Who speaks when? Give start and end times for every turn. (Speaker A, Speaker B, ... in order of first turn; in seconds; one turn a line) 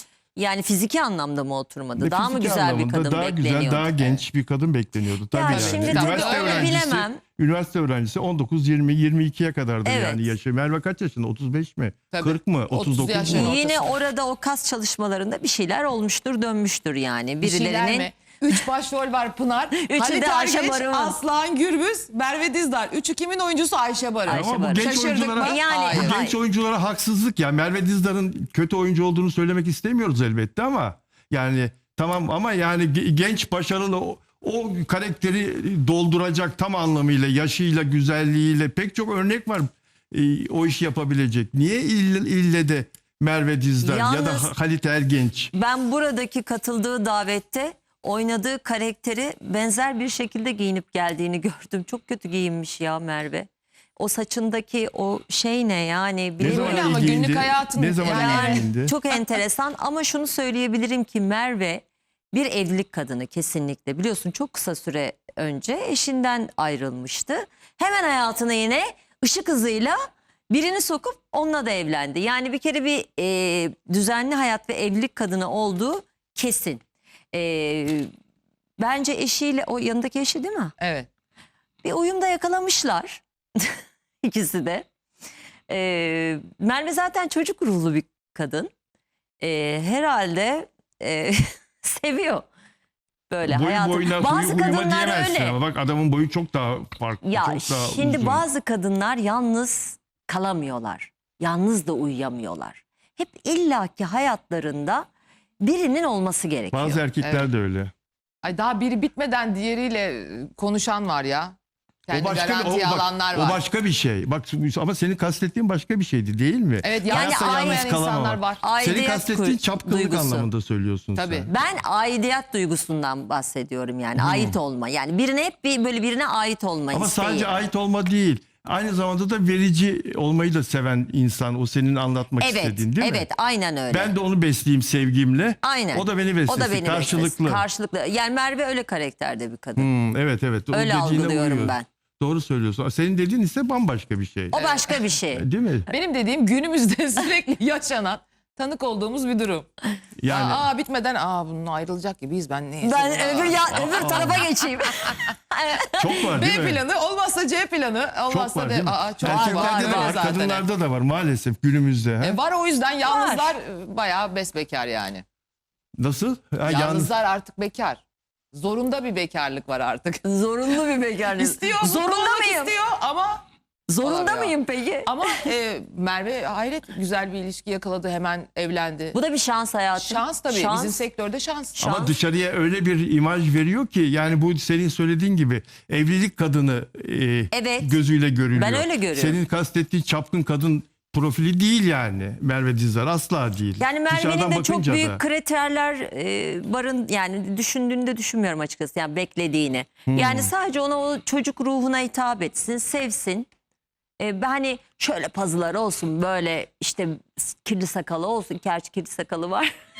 Speaker A: 0.3-4.2
Speaker B: 2.0-13.5
Speaker A: 5.3-7.2
Speaker C: 5.5-6.8
Speaker A: 9.8-10.3
Speaker C: 12.1-13.9
Speaker A: 13.2-18.6
Speaker C: 17.4-26.1
Speaker A: 19.8-21.2
Speaker A: 24.2-26.4
Speaker B: 24.3-45.5
Speaker A: 43.8-44.5
Speaker A: 45.5-57.4
Speaker B: 56.4-58.9
Speaker C: 56.4-59.2
Speaker A: 58.0-70.0
Speaker A: 70.5-78.1
Speaker A: 78.8-80.7
Speaker C: 80.8-81.1
Speaker A: 81.8-84.8
Speaker A: 85.7-88.7
Speaker A: 89.4-92.5
Speaker A: 93.3-95.6
Speaker B: 93.5-98.4
Speaker A: 97.2-105.1
Speaker A: 105.6-107.0
Speaker B: 106.7-107.9
Speaker C: 107.2-107.5
Speaker C: 108.4-111.5
Speaker C: 112.1-113.6
Speaker B: 112.1-121.5
Speaker C: 116.8-118.6
Speaker A: 117.0-117.9
Speaker A: 118.6-120.5
Speaker C: 121.2-121.5
Speaker A: 121.5-127.7
Speaker B: 124.2-124.6
Speaker B: 126.9-133.2
Speaker A: 132.4-134.1
Speaker B: 133.9-137.6
Speaker A: 135.6-139.9
Speaker B: 139.8-144.6
Speaker A: 140.7-141.8
Speaker A: 144.5-145.4
Speaker C: 144.5-144.9
Speaker B: 145.3-145.9
Speaker C: 145.9-149.7
Speaker B: 150.2-150.7
Speaker C: 150.3-154.5
Speaker A: 152.8-156.3
Speaker B: 153.7-154.4
Speaker B: 156.0-156.8
Speaker C: 156.3-160.6
Speaker B: 158.3-162.4
Speaker A: 159.2-160.3
Speaker C: 162.2-165.2
Speaker A: 163.0-163.5
Speaker B: 166.0-167.1
Speaker C: 166.7-168.0
Speaker C: 168.5-170.2
Speaker A: 170.2-172.7
Speaker C: 171.3-173.4
Speaker A: 173.9-175.4
Speaker C: 174.0-174.5
Speaker C: 175.1-179.2
Speaker A: 179.1-181.0
Speaker C: 179.9-181.8
Speaker A: 181.8-182.2
Speaker B: 181.8-195.2
Speaker A: 187.5-188.0
Speaker A: 188.5-189.4
Speaker A: 193.8-203.5
Speaker B: 200.1-200.5
Speaker A: 204.2-209.7